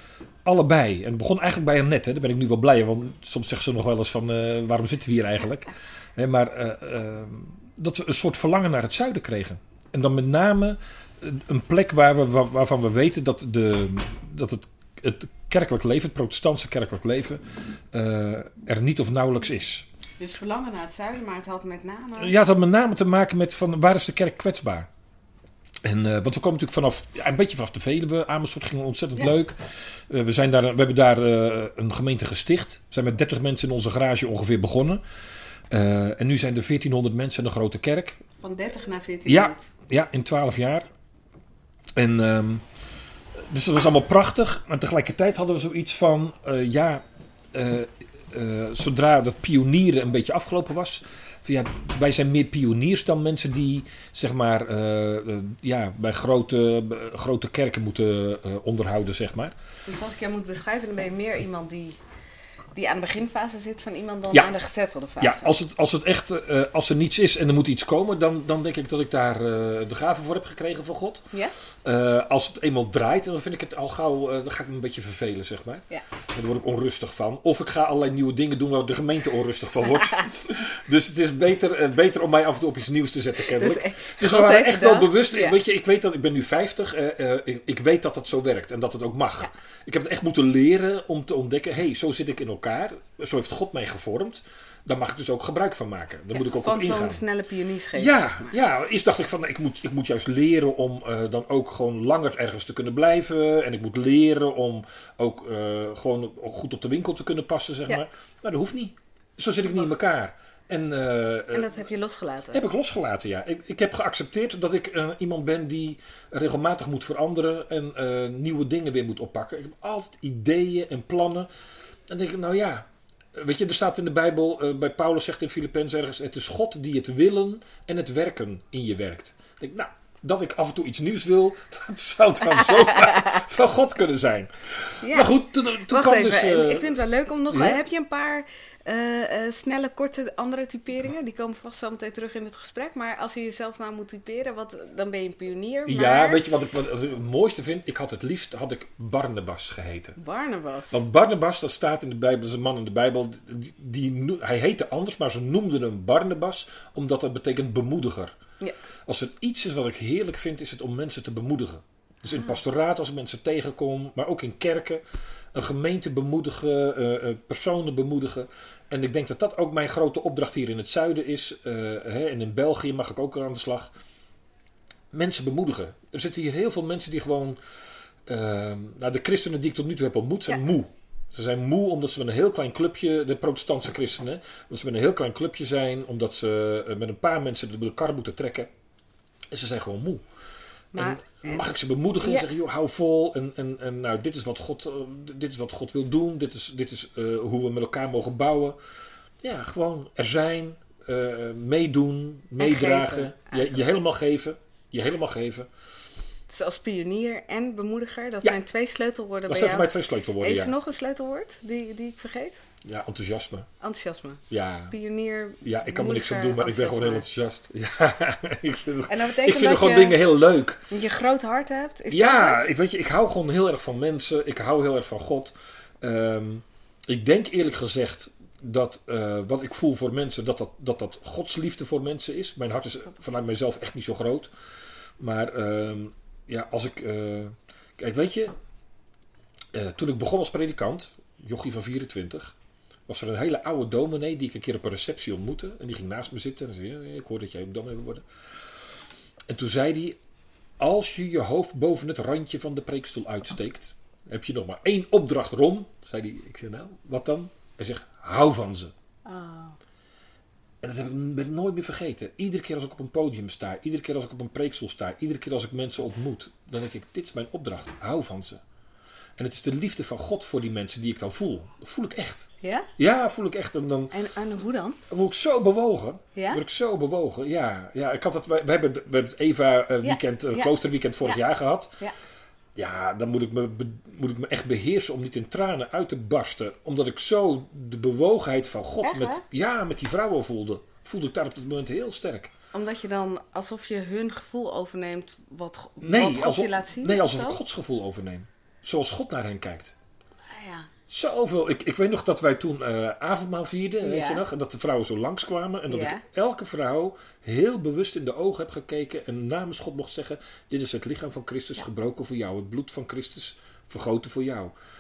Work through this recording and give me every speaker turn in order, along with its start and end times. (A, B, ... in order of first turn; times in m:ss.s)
0:00.4-0:19.9 A
0:20.2-0:22.4 B
0:22.2-0:24.9 A
0:25.8-0:35.0 A
0:35.7-0:38.2 A
0:38.4-0:39.7 B
0:39.3-0:40.9 A
0:42.0-0:42.6 A
0:43.4-0:59.6 A
0:59.9-1:02.0 B
1:02.7-1:05.6 B
1:05.2-1:37.2 A
1:23.4-1:25.6 B
1:36.3-1:38.2 B
1:38.0-1:51.7 A
1:51.5-1:52.6 B
1:52.5-2:01.5 A
2:02.1-2:17.0 A
2:12.6-2:13.4 B
2:15.0-2:26.4 B
2:17.5-2:17.8 A
2:25.9-2:30.2 A
2:30.2-2:31.0 B
2:30.9-2:38.4 A
2:39.1-2:45.0 A
2:42.3-2:42.6 B
2:45.5-2:53.9 A
2:55.1-2:57.6 A
2:58.3-3:08.7 A
3:09.5-3:10.2 A
3:10.9-3:11.7 B
3:11.0-3:18.8 A
3:12.2-3:12.5 B
3:19.4-3:25.7 A
3:22.6-3:23.8 B
3:26.5-3:32.6 B
3:29.5-3:30.7 A
3:32.8-3:33.7 A
3:33.8-3:37.2 B
3:34.5-3:35.0 A
3:35.6-3:40.9 A
3:39.1-3:40.2 B
3:40.9-3:42.7 B
3:42.1-3:54.5 A
3:55.2-3:58.5 A
3:59.7-4:02.6 A
4:03.1-4:08.3 A
4:09.5-4:10.2 A
4:10.8-4:18.9 A
4:19.2-4:19.8 B
4:20.8-4:28.6 A
4:29.4-4:34.2 A
4:32.6-4:32.9 B
4:34.1-4:35.0 B
4:35.1-4:42.0 A
4:36.4-4:36.6 B
4:40.0-4:41.4 B
4:42.8-4:52.5 A
4:49.0-4:49.4 B
4:52.7-4:57.6 B
4:56.0-5:00.0 A
5:00.4-5:00.9 B
5:01.1-5:14.7 A
5:04.0-5:04.4 B
5:05.9-5:06.2 B